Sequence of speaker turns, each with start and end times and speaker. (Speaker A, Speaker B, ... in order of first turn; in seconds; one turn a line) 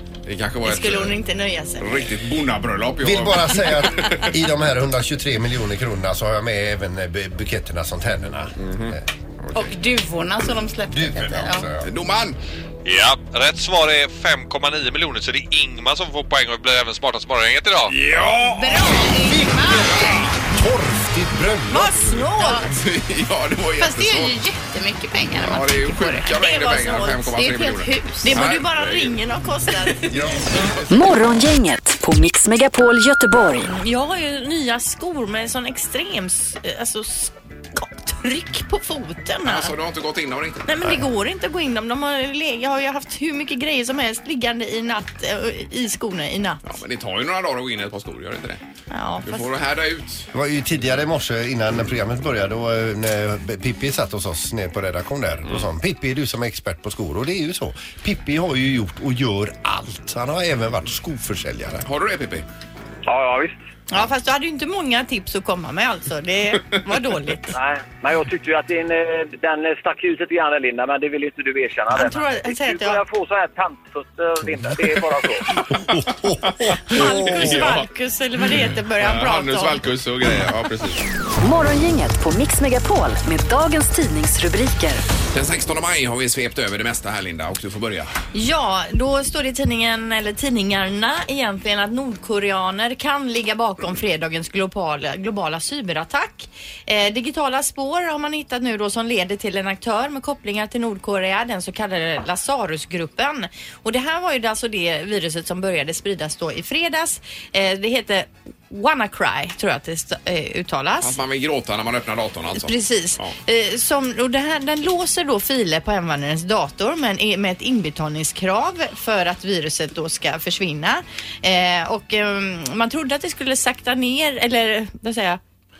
Speaker A: 0.2-1.2
Speaker B: 0.6-1.9
Speaker A: 1.8-4.3
Speaker C: 3.0-9.1
Speaker A: 8.6-8.9
Speaker D: 9.5-11.7
Speaker C: 10.9-11.9
Speaker A: 11.8-12.4
Speaker E: 12.8-17.9
Speaker A: 17.9-18.4
Speaker D: 18.5-20.2
Speaker C: 19.0-22.2
Speaker B: 21.7-22.7
Speaker D: 22.4-22.7
Speaker A: 22.6-24.4
Speaker D: 23.8-28.4
Speaker A: 25.4-29.2
Speaker B: 28.2-30.1
Speaker C: 30.1-30.6
Speaker F: 30.9-33.7
Speaker B: 33.6-39.7
Speaker A: 39.4-40.7
Speaker B: 40.6-46.6
Speaker A: 46.6-48.6
Speaker B: 48.9-49.5
Speaker A: 49.2-50.2
Speaker C: 50.3-61.9
Speaker A: 61.8-62.4
Speaker G: 63.0-63.6
Speaker B: 63.9-67.5
Speaker G: 67.5-75.5
Speaker B: 71.9-73.0
Speaker C: 75.7-77.6
Speaker A: 76.4-77.9
Speaker B: 76.8-79.8
Speaker A: 79.0-81.0
Speaker F: 81.4-85.0
Speaker A: 85.3-88.1
Speaker B: 88.3-111.2
Speaker A: 111.0-113.3
Speaker B: 112.5-125.4